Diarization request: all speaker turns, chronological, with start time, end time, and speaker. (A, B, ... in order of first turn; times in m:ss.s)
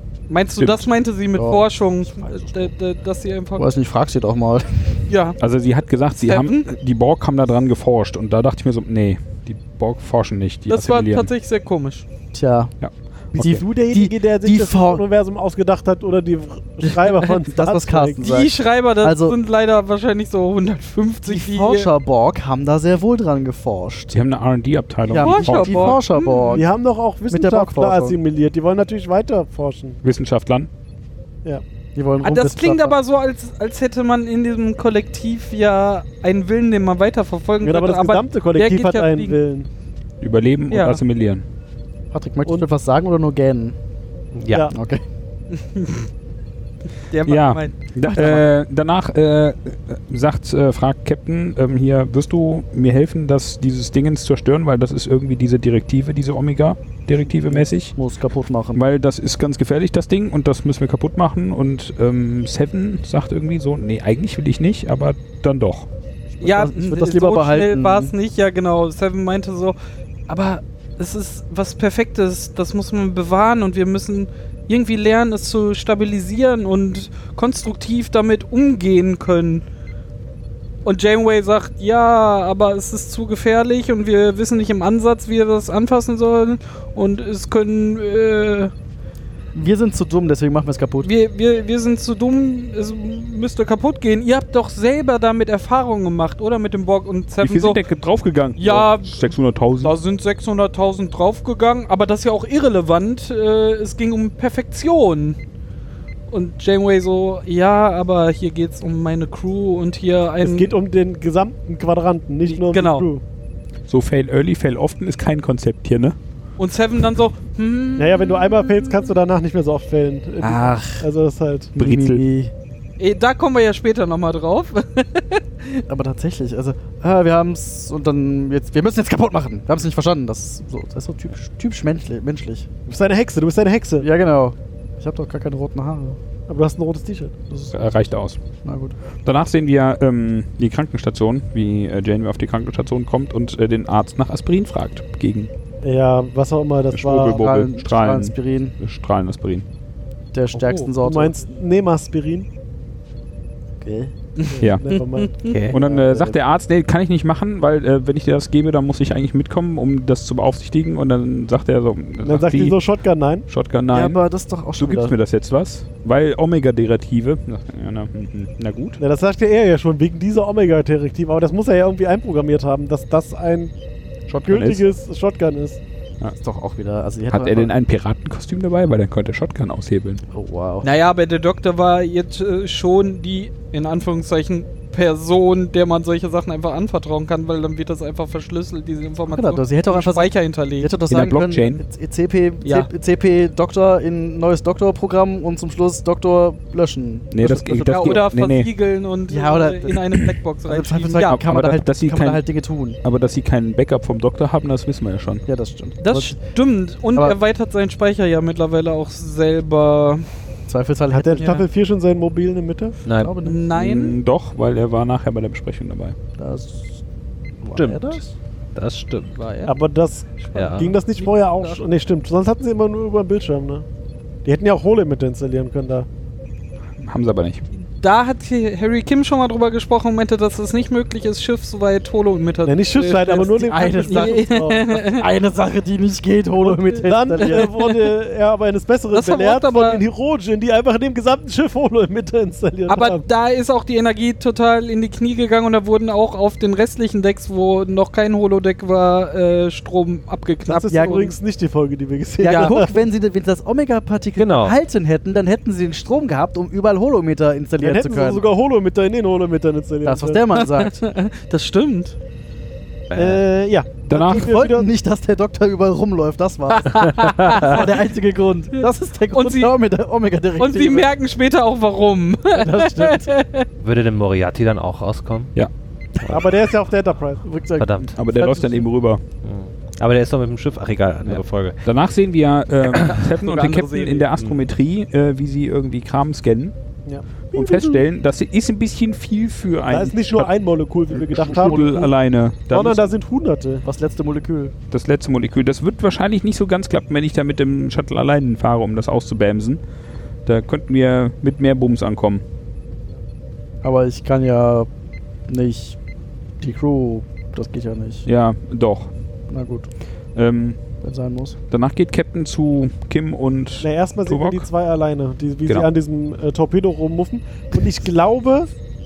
0:00.3-0:03.6 A
0:00.6-0:00.8 B
0:01.3-0:02.7 C
0:03.6-0:04.9 C
0:05.1-0:05.4 A
0:05.4-0:11.3 B
0:06.1-0:06.7 A
0:10.7-0:12.0 A
0:12.3-0:12.7 C
0:12.8-0:13.6 B
0:13.4-0:15.0 C
0:13.4-0:18.2 D
0:17.0-0:19.4 C
0:18.2-0:21.9 A
0:21.2-0:24.2 C
0:24.1-0:26.0 B
0:25.1-0:26.6 C
0:25.2-0:26.6 A
0:26.5-0:30.0 D
0:27.3-0:28.2 C
0:30.0-0:30.7 B
0:31.9-0:32.9 C
0:32.2-0:39.4 A
0:37.6-0:39.7 D
0:40.2-0:41.4 B
0:40.7-0:41.0 A
0:42.1-0:43.8 C
0:44.3-0:44.7 E
0:44.7-0:45.0 C
0:45.5-0:46.1 A
0:47.1-0:48.4 A
0:47.2-0:57.9 B
0:57.5-0:58.8 C
0:58.7-1:05.9 B
1:06.4-1:08.1 C
1:06.4-1:09.7 A
1:10.3-1:19.6 A
1:20.8-1:28.7 A
1:29.5-1:31.1 C
1:31.0-1:37.8 A
1:37.4-1:39.9 B
1:38.6-1:39.3 A
1:39.8-1:45.4 A
1:46.3-1:50.7 A
1:50.4-1:53.2 D
1:52.4-1:53.1 A
1:53.9-1:56.2 B
1:56.6-1:59.1 A
1:58.0-2:01.7 D
2:00.4-2:01.1 C
2:01.8-2:02.2 B
2:01.8-2:02.5 C
2:03.0-2:05.8 A
2:05.9-2:12.7 C
2:12.9-2:14.0 D
2:14.0-2:16.2 C
2:16.5-2:17.3 D
2:17.5-2:17.9 C
2:17.7-2:18.4 B
2:18.6-2:19.0 C
2:19.2-2:25.5 B
2:25.8-2:27.4 D
2:26.9-2:29.6 B
2:27.3-2:28.8 C
2:30.3-2:31.4 C
2:31.0-2:32.5 D
2:33.8-2:34.1 C
2:34.4-2:35.5 A
2:34.5-2:35.4 D
2:34.6-2:34.8 B
2:35.4-2:35.8 E
2:35.7-2:42.8 B
2:35.7-2:36.4 C
2:42.2-2:43.4 D
2:43.5-2:44.2 B
2:43.9-2:45.1 C
2:44.8-2:49.0 B
2:49.0-2:53.7 D
2:54.3-2:54.8 B
2:54.4-2:55.8 D
2:56.4-2:57.7 C
2:57.3-3:00.2 B
3:00.3-3:00.9 C
3:00.8-3:10.9 A
3:09.3-3:18.2 C
3:11.1-3:11.8 B
3:17.3-3:18.7 B
3:17.9-3:21.4 A
3:19.3-3:20.0 C
3:20.7-3:23.0 C
3:21.2-3:22.4 B
3:23.0-3:25.4 B
3:25.5-3:26.4 C
3:26.0-3:30.3 A
3:30.7-3:31.6 C
3:31.1-3:33.0 D
3:33.0-3:33.3 E
3:33.2-3:33.6 C
3:33.4-3:34.2 A
3:33.7-3:36.2 B
3:36.4-3:37.0 C
3:37.6-3:38.3 C
3:37.8-3:38.2 E
3:38.7-3:39.4 E
3:39.4-3:39.7 A
3:39.6-3:43.8 D
3:40.5-3:41.0 E
3:41.1-3:41.8 A
3:44.4-3:46.1 D
3:47.0-3:47.6 B
3:48.0-3:55.2 A
3:52.6-3:55.0 D
3:53.6-3:57.7 C
3:56.6-4:03.2 D
3:57.4-3:58.0 A
3:59.1-4:00.0 A
4:02.9-4:11.3 A
4:10.7-4:13.0 D
4:12.4-4:18.4 C
4:12.4-4:12.8 A
4:14.4-4:14.7 E
4:17.8-4:20.4 D
4:20.0-4:21.0 C
4:20.5-4:22.2 A
4:23.1-4:23.4 E
4:23.1-4:24.9 D
4:24.1-4:24.5 B
4:24.1-4:31.1 C
4:26.9-4:27.9 A
4:27.5-4:27.7 E
4:28.8-4:29.7 A
4:30.6-4:33.7 A
4:32.5-4:33.3 C
4:33.8-4:35.5 E
4:36.2-4:36.5 E
4:36.3-4:37.4 D
4:37.4-4:38.8 C
4:37.8-4:38.1 E
4:38.2-4:39.2 B
4:39.4-4:41.8 E
4:41.2-4:46.7 B
4:43.3-4:44.2 A
4:47.5-4:50.5 B
4:47.5-4:48.0 C
4:49.9-4:52.1 D
4:51.1-4:53.1 B
4:51.4-4:52.0 C
4:52.7-4:53.8 D
4:53.8-4:54.7 C
4:54.9-4:59.8 B
5:00.4-5:02.4 B
5:03.8-5:04.9 C
5:05.5-5:06.0 C
5:06.6-5:08.3 C
5:08.2-5:09.1 B
5:09.5-5:09.9 C
5:10.3-5:10.8 B
5:11.0-5:11.6 C
5:11.7-5:14.7 B
5:13.8-5:18.7 D